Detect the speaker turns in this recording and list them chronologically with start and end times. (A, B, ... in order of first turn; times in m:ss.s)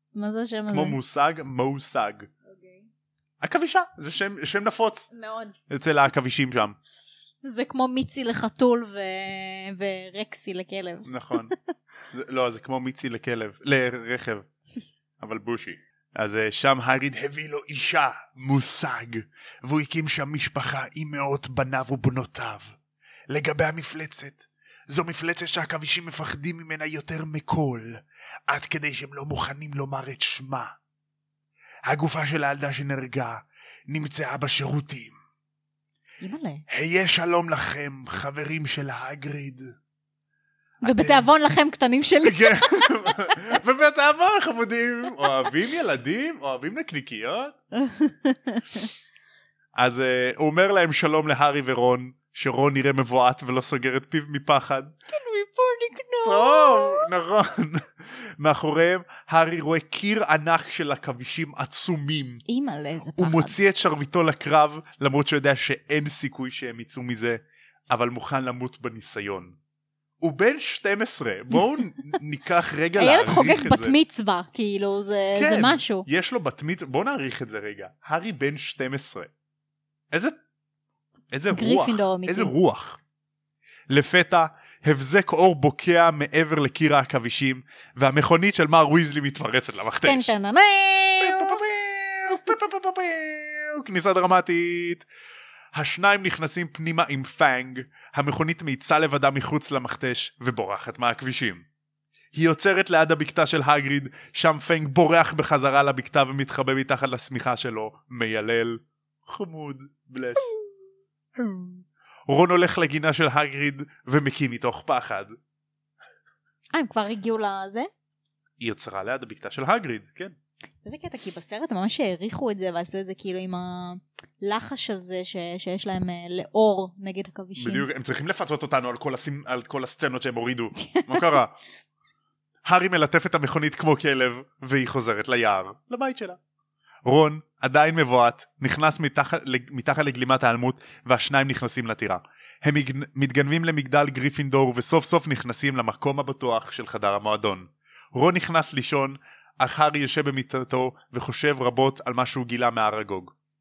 0:00.1-0:01.0 A
0:00.7-0:02.3 B
0:02.4-0:02.9 A
0:03.4-0:05.1 B
0:05.1-0:05.6 A
0:05.7-0:06.8 B
0:07.4-0:11.6 A
0:11.0-0:11.5 B
0:12.1-0:14.5 B
0:15.2-0:22.8 B
0:23.3-0:30.8 B
0:31.9-0:35.2 B
0:36.2-0:36.6 A
0:36.7-0:39.7 B
0:40.8-0:41.3 B
0:40.8-0:43.3 A
0:42.2-0:47.6 B
0:47.7-0:48.9 A
0:49.8-0:54.9 B
0:55.1-0:57.1 A
0:56.2-1:02.4 B
1:02.5-1:03.6 A
1:03.2-1:09.6 B
1:10.2-1:14.0 B
1:13.0-1:16.1 A
1:15.3-1:19.3 B
1:20.1-1:20.4 B
1:21.3-1:23.0 B
1:21.5-1:22.5 A
1:23.9-1:30.3 B
1:30.0-1:31.6 A
1:31.2-1:35.0 B
1:35.7-1:41.6 B
1:42.3-1:50.6 B
1:51.4-1:55.3 B
1:56.7-1:57.9 A
1:58.6-2:00.4 B
2:00.8-2:07.8 A
2:07.6-2:11.5 B
2:10.8-2:11.4 A
2:12.6-2:16.4 B
2:17.0-2:33.3 B